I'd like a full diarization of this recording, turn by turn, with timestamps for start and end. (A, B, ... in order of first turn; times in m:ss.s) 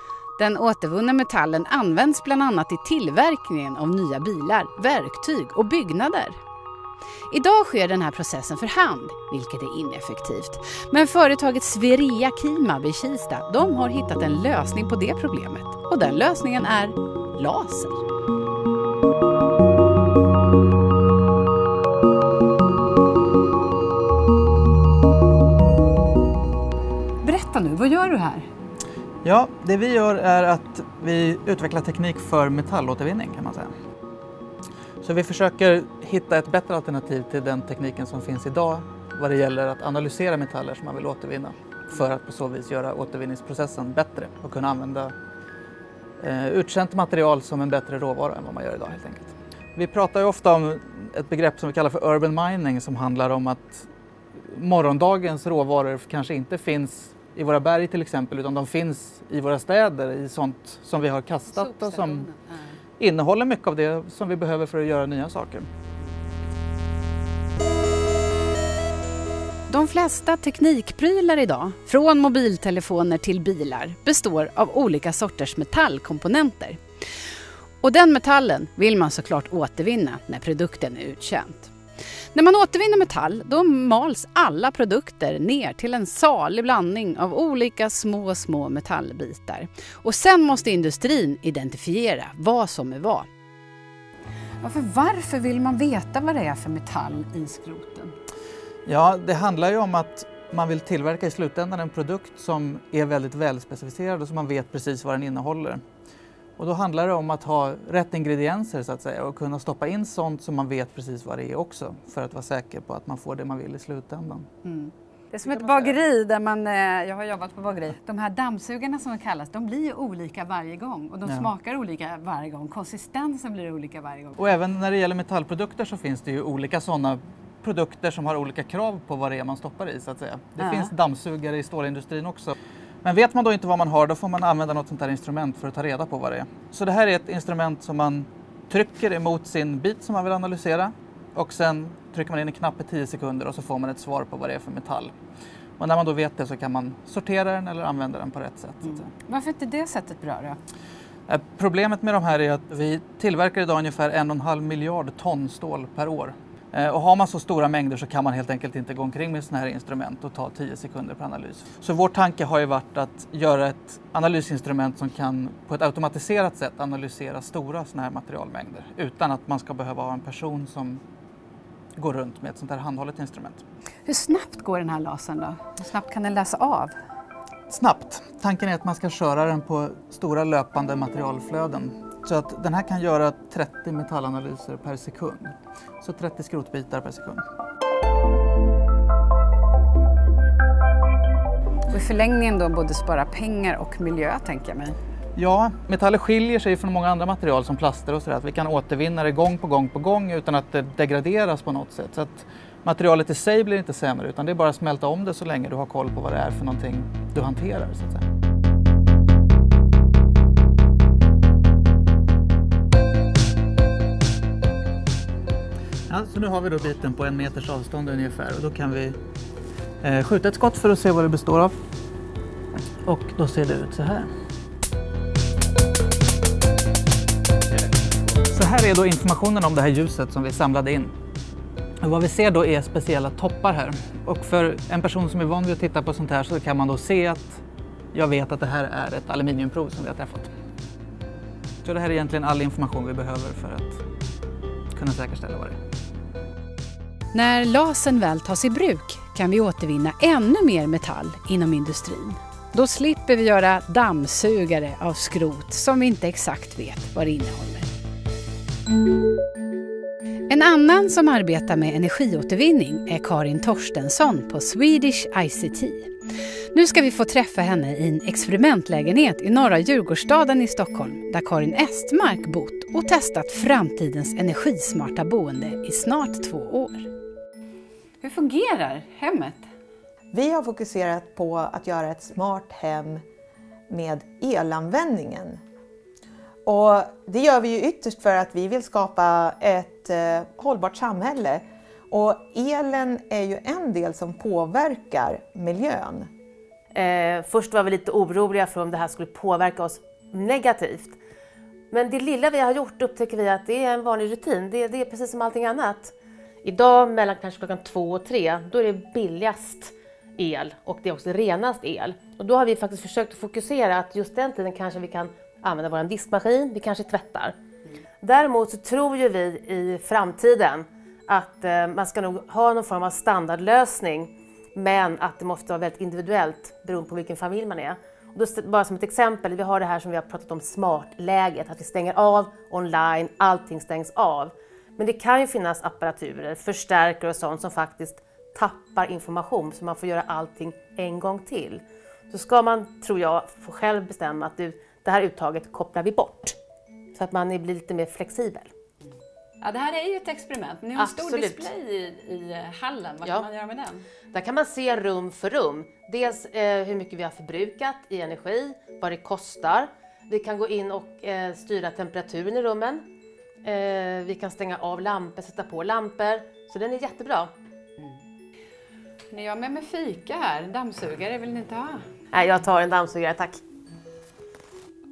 0:00.4-0:06.4 A
0:07.3-0:18.0 A
0:27.2-0:28.5 A
0:29.2-0:33.7 B
0:35.0-0:45.1 B
0:46.2-1:02.3 B
1:01.5-1:02.6 A
1:03.0-1:05.7 B
1:09.7-1:16.8 A
1:17.8-1:21.7 A
1:22.3-1:33.3 A
1:34.6-1:38.1 A
1:38.8-1:45.8 B
1:46.6-1:54.5 B
1:54.6-2:04.4 A
2:04.4-2:25.1 B
2:10.6-2:10.9 A
2:25.8-2:29.0 B
2:28.8-2:30.6 A
2:31.3-2:51.0 B
2:52.0-2:53.6 B
2:54.0-2:56.9 A
2:57.7-3:07.4 B
3:11.9-3:15.0 A
3:15.4-3:28.2 B
3:36.1-3:39.2 B
3:40.0-3:41.7 B
3:43.0-3:44.3 B
3:48.5-3:51.1 B
3:52.0-3:57.6 B
3:58.1-4:00.5 B
4:01.8-4:04.0 B
4:04.9-4:05.8 B
4:07.3-4:17.9 A
4:20.5-4:26.1 A
4:26.7-4:37.1 A
4:38.2-4:39.7 A
4:40.3-4:43.2 C
4:43.9-4:45.6 C
4:46.6-4:56.3 C
4:56.9-5:01.2 D
5:01.9-5:17.5 D
5:18.2-5:46.6 D
5:47.1-5:48.7 D
5:49.6-5:54.0 A
5:51.0-5:51.7 D
5:54.3-6:03.0 D
6:03.6-6:07.5 D
6:09.3-6:12.0 A
6:12.3-6:13.6 D